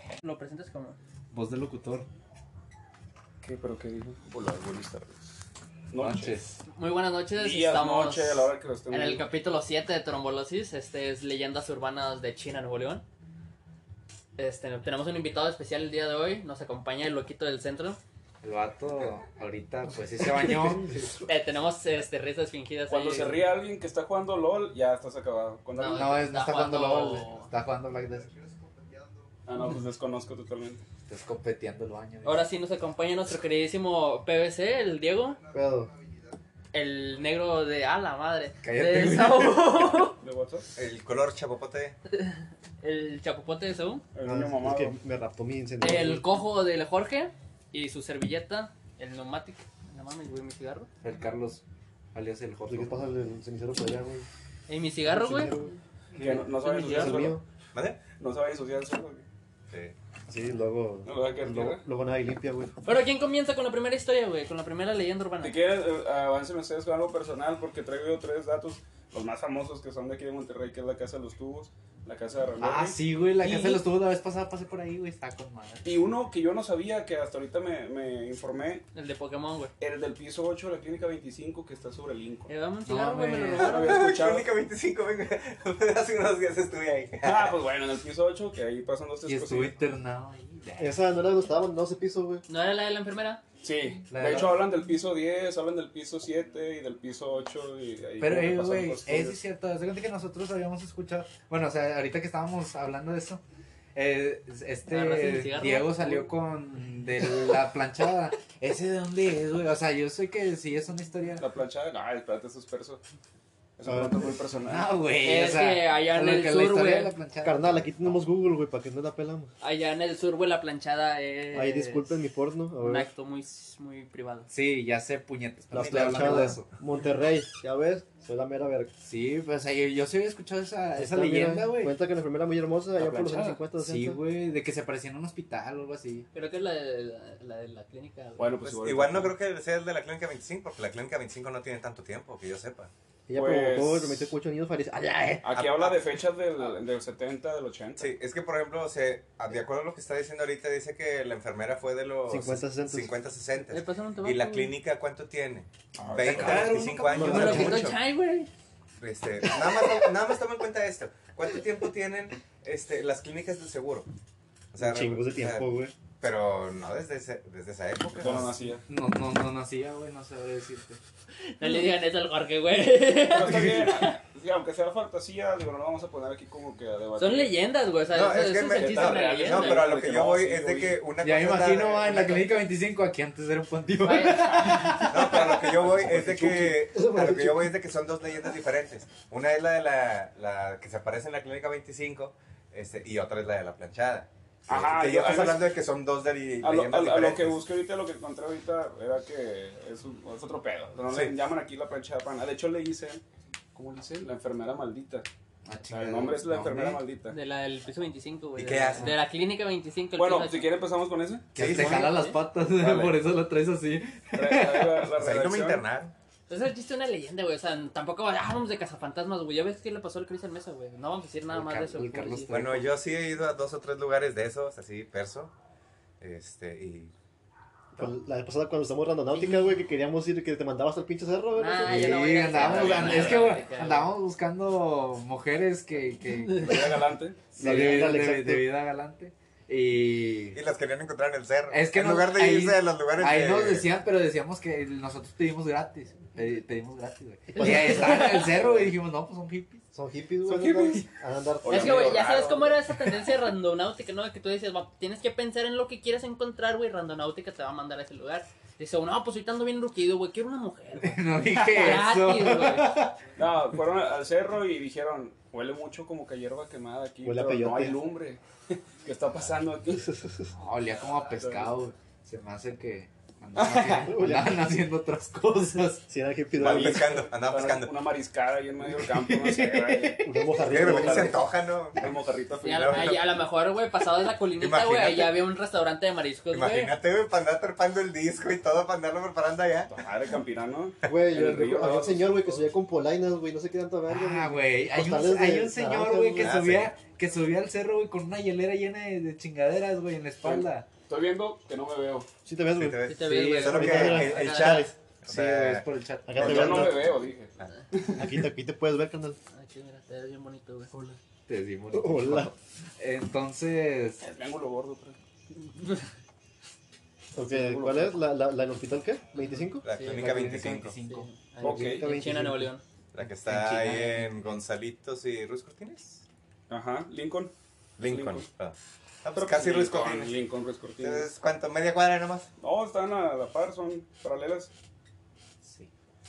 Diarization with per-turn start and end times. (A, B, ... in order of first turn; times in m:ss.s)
0:00.2-0:01.0 A
0:01.3-0:02.1 B
0:03.4-0:05.3 C
0:05.9-0:06.4 C
0:06.0-0:06.6 B
0:06.7-0:13.0 A
0:07.3-0:09.2 C
0:14.4-0:18.0 A
0:18.4-0:21.0 B
0:20.4-0:21.3 D
0:21.2-0:23.4 A
0:22.9-0:26.2 C
0:25.8-0:27.5 A
0:25.9-0:28.3 B
0:29.5-0:30.8 C
0:31.1-0:32.4 B
0:32.2-0:35.4 A
0:35.5-0:35.9 D
0:36.7-0:40.2 A
0:38.6-0:40.0 B
0:40.2-0:40.7 C
0:40.8-0:42.0 E
0:42.1-0:44.0 A
0:44.1-0:45.0 C
0:44.2-0:46.2 D
0:45.8-0:50.9 A
0:51.0-0:51.6 B
0:52.1-0:53.0 B
0:52.7-0:54.3 D
0:54.7-0:55.6 A
0:55.0-0:57.4 D
0:56.2-0:57.4 C
0:57.7-0:58.0 E
0:58.2-0:59.2 C
1:00.3-1:02.8 D
1:01.0-1:01.8 C
1:02.8-1:05.6 A
1:05.4-1:13.0 C
1:12.6-1:15.8 B
1:13.4-1:13.8 A
1:15.8-1:18.8 C
1:18.9-1:19.7 A
1:19.8-1:22.5 C
1:22.5-1:24.1 A
1:22.8-1:23.7 B
1:23.6-1:24.5 C
1:23.6-1:27.6 E
1:27.2-1:29.8 C
1:29.2-1:31.0 B
1:30.8-1:32.4 D
1:32.5-1:33.4 A
1:33.6-1:39.4 C
1:34.1-1:34.6 B
1:34.2-1:34.4 D
1:38.2-1:43.4 B
1:43.9-1:51.4 B
1:44.9-1:46.3 A
1:51.4-1:53.0 C
1:53.8-1:54.9 C
1:53.8-1:54.3 D
1:54.7-1:58.2 B
1:55.2-1:57.1 A
1:57.4-1:59.5 D
1:59.6-2:02.1 A
2:01.5-2:03.1 D
2:02.8-2:04.5 A
2:04.5-2:06.7 B
2:05.7-2:08.9 D
2:05.8-2:06.5 E
2:09.0-2:11.9 B
2:11.0-2:14.2 D
2:13.0-2:16.3 B
2:16.3-2:18.6 A
2:18.4-2:19.3 C
2:18.7-2:22.9 E
2:23.3-2:25.6 D
2:23.3-2:24.3 C
2:25.4-2:28.1 C
2:28.0-2:38.0 E
2:32.3-2:33.1 D
2:33.7-2:34.8 A
2:36.0-2:37.6 C
2:36.3-2:37.8 D
2:36.3-2:36.6 B
2:37.2-2:38.5 A
2:39.0-2:44.1 E
2:44.7-2:45.7 E
2:44.8-2:45.9 D
2:46.2-2:48.6 E
2:48.2-2:48.8 C
2:48.9-2:51.0 B
2:51.4-2:54.0 A
2:53.2-2:57.5 C
2:53.4-2:53.9 B
2:57.2-2:59.8 A
2:58.1-3:02.5 E
2:58.7-3:01.0 C
3:01.2-3:05.7 B
3:04.0-3:04.5 A
3:04.3-3:06.4 C
3:05.1-3:17.6 E
3:06.0-3:07.7 D
3:14.7-3:15.7 C
3:16.6-3:23.2 C
3:23.7-3:25.3 C
3:25.6-3:27.0 B
3:25.9-3:27.4 C
3:27.3-3:30.7 A
3:28.6-3:29.1 E
3:30.2-3:31.8 C
3:31.5-3:32.1 E
3:31.5-3:35.1 B
3:31.8-3:32.4 A
3:32.7-3:33.2 C
3:34.3-3:35.8 C
3:35.2-3:36.1 E
3:36.5-3:42.6 A
3:41.5-3:42.9 B
3:42.5-3:45.5 E
3:46.2-3:47.1 E
3:48.0-3:52.7 D
3:49.3-3:49.7 A
3:51.5-3:54.1 A
3:51.8-4:00.6 B
3:52.6-3:53.4 C
3:56.5-3:57.5 C
3:57.6-3:58.7 D
4:00.5-4:03.9 E
4:01.7-4:09.8 B
4:07.5-4:08.6 A
4:07.6-4:08.3 D
4:08.4-4:08.7 C
4:09.9-4:12.2 D
4:10.7-4:11.0 E
4:11.6-4:12.8 C
4:11.7-4:22.9 A
4:21.0-4:23.2 B
4:23.4-4:30.2 C
4:27.2-4:28.0 D
4:30.5-4:36.0 B
4:31.4-4:31.7 C
4:33.6-4:34.0 C
4:33.7-4:34.6 D
4:36.1-4:37.2 D
4:36.6-4:37.9 E
4:36.6-4:43.3 C
4:39.0-4:40.4 B
4:40.2-4:41.5 D
4:40.6-4:43.3 E
4:42.6-4:46.9 A
4:44.6-4:45.4 E
4:46.5-4:49.9 E
4:49.9-4:52.6 C
4:51.0-4:56.5 D
4:54.1-5:00.8 B
4:56.3-4:56.9 E
5:00.4-5:02.3 C
5:02.4-5:04.9 D
5:02.8-5:05.8 E
5:03.0-5:04.9 A
5:03.2-5:04.2 B
5:05.2-5:06.9 B
5:06.2-5:07.1 D
5:06.4-5:08.3 C
5:08.1-5:09.4 D
5:09.5-5:10.9 A
5:11.5-5:14.2 B
5:11.9-5:12.5 D
5:14.2-5:15.2 C
5:15.6-5:16.0 A
5:17.3-5:19.9 D
5:17.5-5:18.2 C
5:19.4-5:20.5 A
5:19.8-5:20.9 E
5:20.0-5:21.3 B
5:21.1-5:22.8 A
5:21.6-5:22.7 D
5:21.6-5:22.1 C
5:23.1-5:26.2 E
5:23.4-5:24.5 B
5:26.7-5:27.5 C
5:28.0-5:30.4 E
5:28.0-5:28.4 C
5:29.3-5:31.3 C
5:31.0-5:32.5 E
5:32.6-5:34.7 C
5:35.6-5:35.9 B